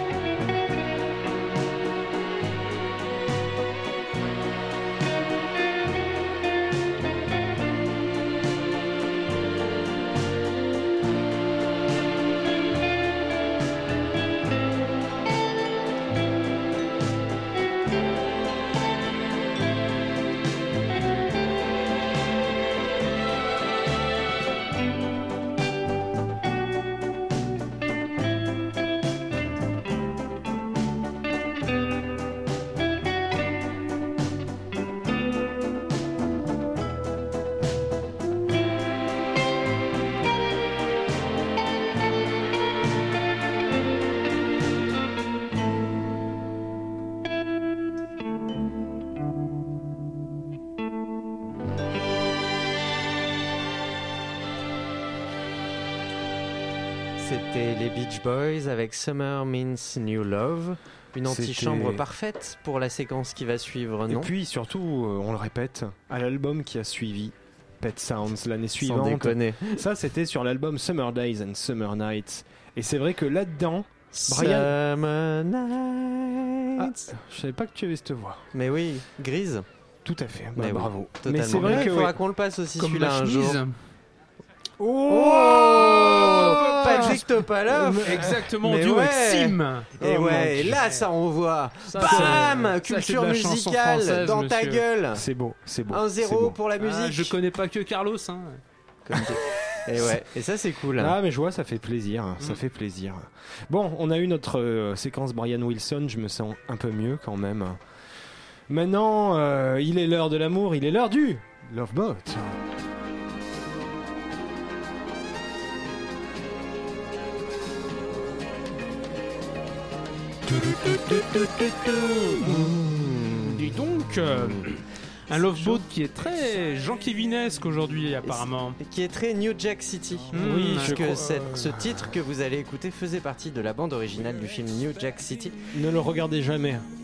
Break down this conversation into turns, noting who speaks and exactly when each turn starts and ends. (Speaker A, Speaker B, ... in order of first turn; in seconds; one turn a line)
Speaker A: 57.2-64.3
Speaker B: 61.2-62.0
Speaker B: 64.1-74.7
Speaker A: 68.8-69.8
Speaker A: 74.1-77.1
Speaker B: 76.8-78.5
Speaker A: 78.5-79.7
Speaker B: 80.0-82.1
Speaker A: 80.6-83.6
Speaker C: 81.5-82.0
Speaker C: 82.8-83.8
Speaker B: 84.8-88.5
Speaker A: 85.1-95.2
Speaker C: 86.4-87.3
Speaker C: 87.9-91.0
Speaker B: 90.0-90.8
Speaker C: 91.9-94.8
Speaker B: 92.0-92.5
Speaker B: 95.1-96.6
Speaker A: 95.9-97.4
Speaker C: 96.8-98.6
Speaker A: 99.0-101.2
Speaker B: 101.0-107.8
Speaker B: 108.7-112.6
Speaker B: 120.5-121.5
Speaker A: 122.3-123.5
Speaker C: 122.4-128.8
Speaker A: 124.4-124.7
Speaker A: 125.3-125.8
Speaker A: 128.2-135.6
Speaker C: 130.3-131.2
Speaker B: 130.3-132.1
Speaker B: 135.7-136.9